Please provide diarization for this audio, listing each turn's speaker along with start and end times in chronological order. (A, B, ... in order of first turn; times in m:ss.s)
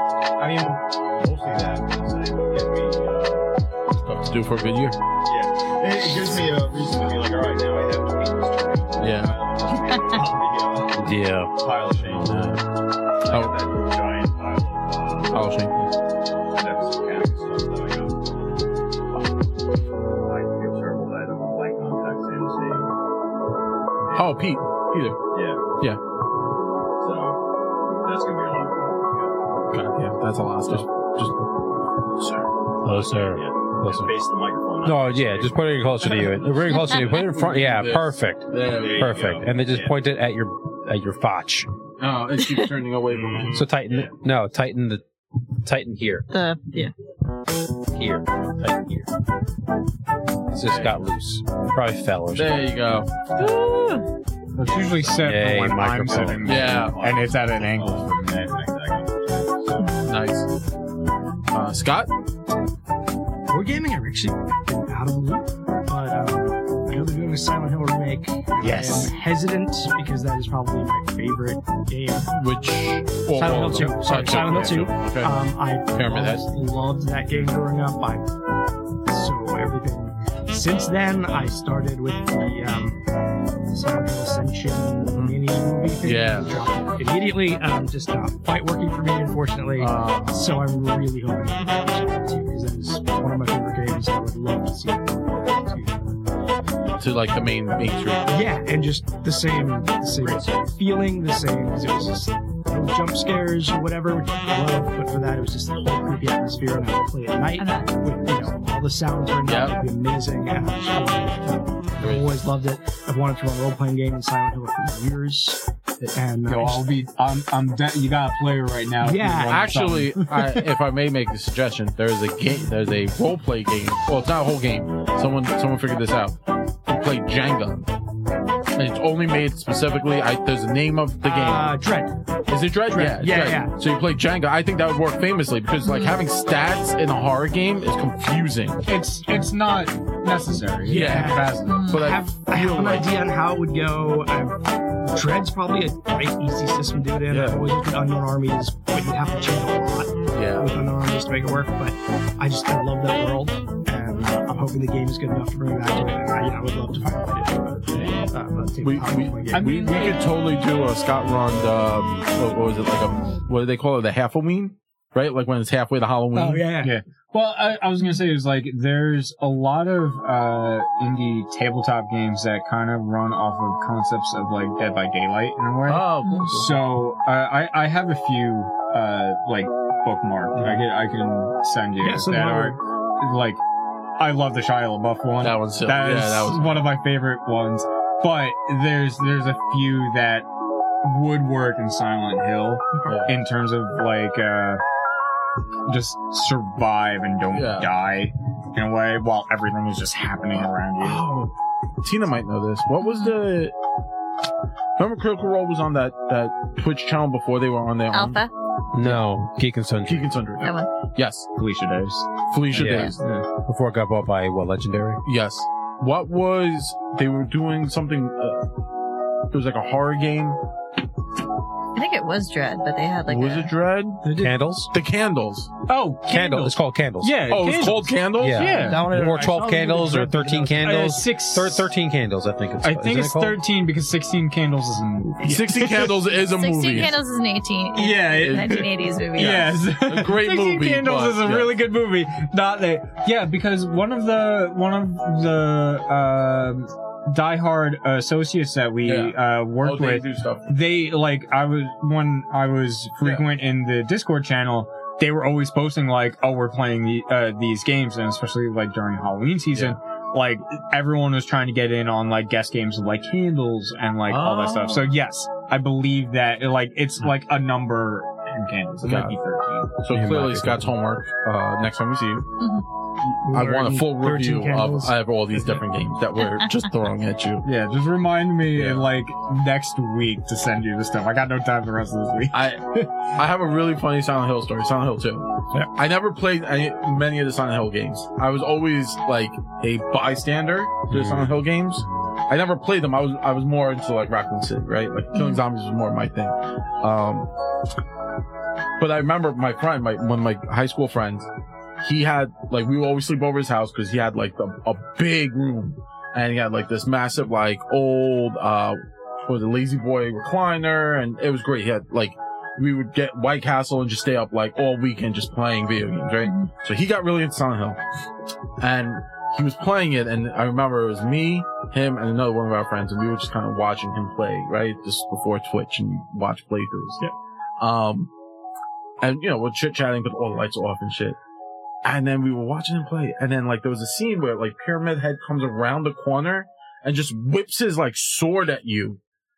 0:00.4-0:03.5 A
0:04.0-0:05.0 B
0:05.2-0:12.5 A
0:09.0-0:09.4 B
0:11.0-0:11.5 C
0:12.1-0:12.6 B
0:13.2-0:15.4 A
0:15.3-0:15.9 B
0:16.4-0:18.8 A
0:20.1-0:22.9 A
0:24.0-0:24.4 A
0:24.1-0:25.2 B
0:25.3-0:25.6 A
0:27.0-0:29.4 A
0:29.7-0:31.4 B
0:32.2-0:32.4 B
0:32.8-0:34.1 C
0:32.8-0:36.3 A
0:34.8-0:41.7 C
0:36.8-0:39.2 B
0:38.7-0:40.0 A
0:42.0-0:43.6 B
0:43.3-0:44.1 A
0:43.5-0:45.0 C
0:45.6-0:46.2 C
0:46.3-0:46.9 D
0:47.9-0:49.1 C
0:50.5-0:52.6 C
0:50.6-0:51.0 B
0:52.4-0:53.1 B
0:53.4-0:54.1 D
0:54.6-0:58.4 E
0:54.6-0:55.0 A
0:55.2-0:56.7 C
0:56.1-1:00.0 A
0:56.4-0:57.0 B
1:00.0-1:00.5 B
1:01.5-1:02.1 B
1:03.5-1:12.3 F
1:08.6-1:09.1 C
1:12.3-1:15.3 B
1:13.3-1:18.3 F
1:15.9-1:16.4 B
1:19.0-1:23.0 F
1:23.7-1:36.2 F
1:25.1-1:25.4 B
1:26.0-1:26.5 B
1:29.8-1:30.6 B
1:37.0-1:38.4 B
1:38.3-1:56.9 F
1:47.6-1:47.9 D
1:49.4-1:49.8 B
1:52.0-1:52.3 B
1:56.5-2:00.6 E
1:59.0-1:59.7 F
1:59.5-2:07.9 B
2:08.7-2:11.8 B
2:11.2-2:12.1 F
2:12.5-2:18.9 B
2:12.9-2:13.8 F
2:15.8-2:16.2 D
2:18.9-2:21.9 E
2:20.8-2:40.1 F
2:20.8-2:23.1 B
2:21.6-2:22.0 D
2:27.3-2:27.6 B
2:30.3-2:30.7 B
2:37.9-2:38.3 B
2:38.8-2:46.6 B
2:39.5-2:40.2 E
2:46.3-2:46.9 F
2:46.8-3:03.6 E
2:55.9-2:56.7 B
2:56.2-2:56.5 D
3:02.0-3:02.8 F
3:04.2-3:10.5 E
3:05.4-3:06.9 B
3:11.0-3:14.8 E
3:13.0-3:13.4 B
3:15.9-3:21.2 E
3:17.5-3:17.9 B
3:21.0-3:23.7 B
3:23.0-3:23.4 D
3:25.0-3:28.4 B
3:28.1-3:28.5 D
3:28.9-3:30.3 C
3:30.0-3:31.5 B
3:30.6-3:30.9 D
3:31.6-3:33.5 E
3:32.5-3:33.2 B
3:32.7-3:33.1 C
3:32.8-3:33.1 D
3:33.6-3:35.2 C
3:35.2-3:38.6 B
3:39.5-3:40.6 B
3:41.9-3:43.7 D
3:43.3-3:44.2 B
3:44.2-3:44.6 F
3:44.4-3:44.9 C
3:44.9-3:45.7 B
3:45.9-3:49.1 E
3:46.3-3:47.4 C
3:47.5-3:48.9 B
3:48.4-3:53.6 C
3:48.6-3:50.9 F
3:50.8-3:51.9 E
3:52.8-3:56.1 E
3:55.4-3:57.1 B
3:56.4-3:59.8 D
3:58.0-4:30.0 E
3:58.4-3:58.8 B
3:59.4-4:01.8 B
4:09.0-4:10.7 B
4:19.7-4:20.0 B
4:24.3-4:25.1 B
4:29.0-4:29.4 B
4:30.0-4:32.5 B
4:30.1-4:30.9 C
4:32.6-4:32.8 D
4:33.4-4:35.8 F
4:33.5-4:37.7 B
4:37.6-4:43.1 E
4:38.7-4:39.1 B
4:42.5-4:57.5 B
4:51.1-4:51.6 C
4:55.3-4:55.6 D
4:59.0-5:01.5 B
5:02.0-5:18.0 B
5:16.4-5:16.7 D
5:18.8-5:27.2 B
5:27.8-5:28.3 B
5:29.2-5:31.4 B
5:32.0-5:39.2 B